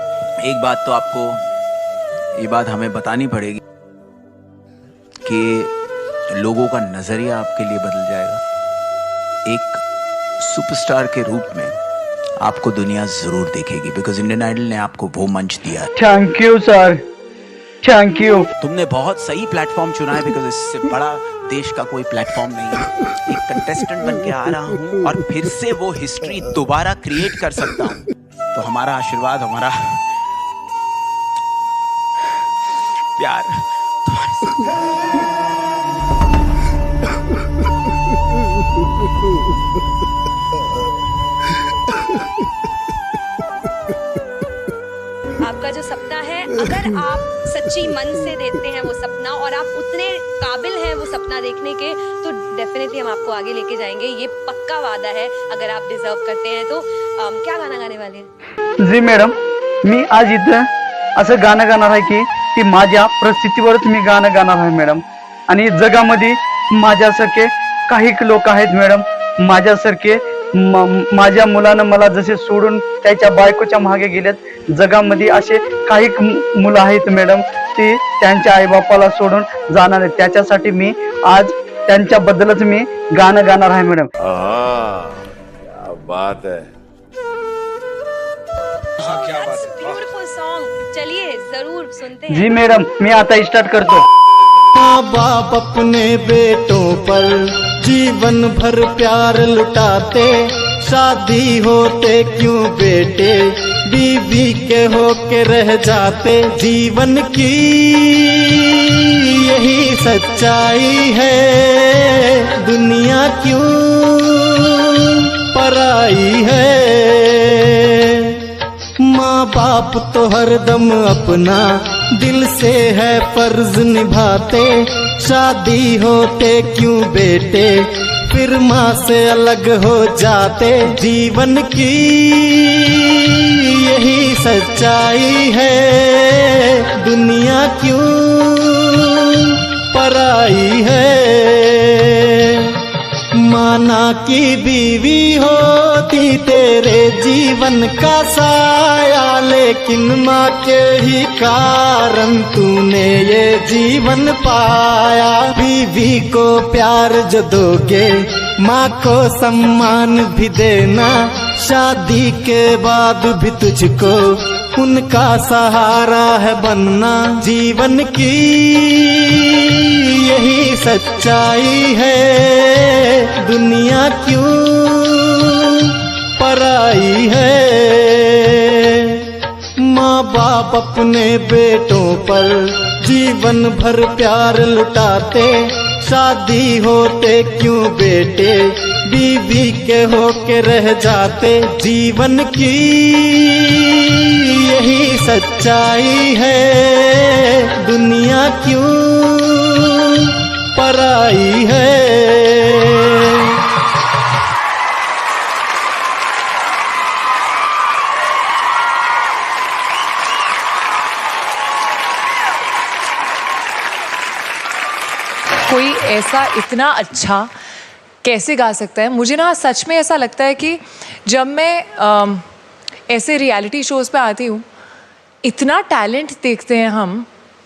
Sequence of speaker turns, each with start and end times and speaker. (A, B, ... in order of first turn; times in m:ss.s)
0:00.4-0:01.4 A
0:02.4-0:03.6 A
0:05.2-0:05.7 A
0:06.3-0:08.4 A
0:09.4-0:09.8 A
0:10.4-0:11.8 A
0:12.4-0:15.9 A
0:16.0-0:17.0 B
0:17.8-0:18.5 B
0:18.6-0:30.0 A
0:33.2-0:34.7 A
0:45.4-0:58.3 C
0:58.8-0:59.3 B
0:59.9-1:00.6 B
1:01.2-1:24.1 B
1:24.2-1:26.7 D
1:29.0-1:32.5 C
1:32.3-1:34.0 B
1:34.7-1:58.5 E
1:59.0-2:22.8 E
2:23.3-3:23.7 E
3:35.7-3:37.5 F
3:38.2-3:42.4 F
3:43.1-3:44.6 F
3:45.4-3:47.3 F